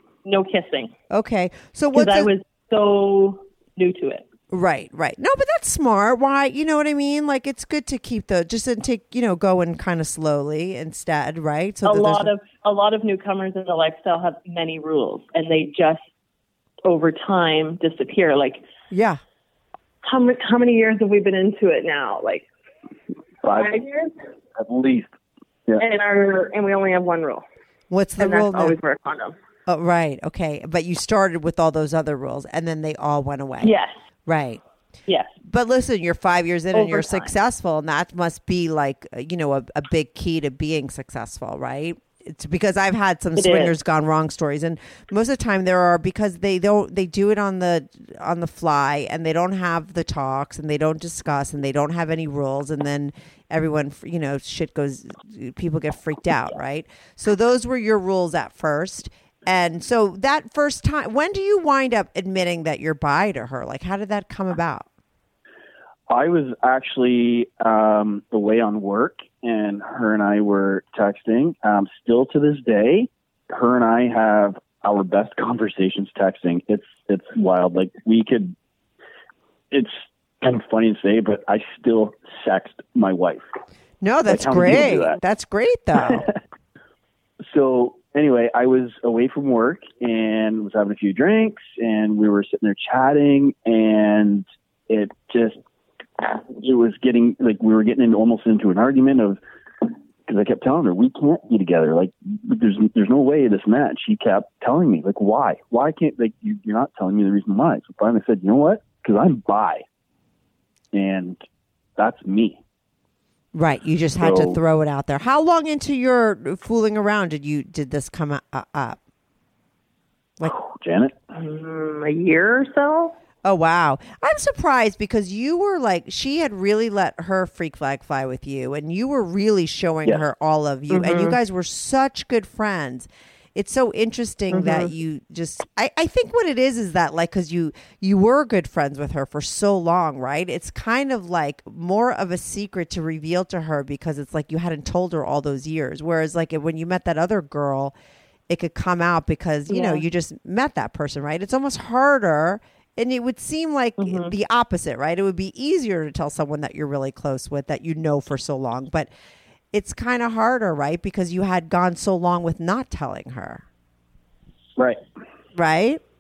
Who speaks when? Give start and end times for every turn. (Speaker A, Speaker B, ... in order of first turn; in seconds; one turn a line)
Speaker A: 0.2-0.9
Speaker B: 1.1-2.3
Speaker A: 1.9-4.2
Speaker B: 4.5-12.3
Speaker A: 11.8-16.1
Speaker A: 16.9-18.6
Speaker B: 18.9-19.2
Speaker A: 20.0-22.4
Speaker C: 23.4-23.7
Speaker A: 23.5-24.2
Speaker C: 24.6-25.1
Speaker A: 25.8-27.4
Speaker B: 27.9-28.8
Speaker A: 28.2-29.4
Speaker B: 29.7-33.7
Speaker A: 33.6-33.9
Speaker B: 34.3-34.6
Speaker A: 35.1-35.3
Speaker B: 35.4-64.9
Speaker A: 36.7-37.4
Speaker A: 43.4-43.7
Speaker C: 66.1-78.5
Speaker C: 79.7-83.4
Speaker B: 84.0-86.3
Speaker C: 84.3-85.2
Speaker C: 86.0-86.3
Speaker C: 87.5-95.6
Speaker C: 96.2-109.8
Speaker C: 110.9-111.4
Speaker C: 112.0-112.6
Speaker B: 113.5-119.0
Speaker C: 114.2-114.6
Speaker C: 120.4-121.2
Speaker A: 121.3-123.2
Speaker B: 123.5-147.9
Speaker A: 130.9-131.4
Speaker A: 134.5-134.9
Speaker B: 148.5-159.1
Speaker A: 149.7-150.1
Speaker A: 154.0-154.3
Speaker B: 159.7-163.6
Speaker B: 165.5-166.0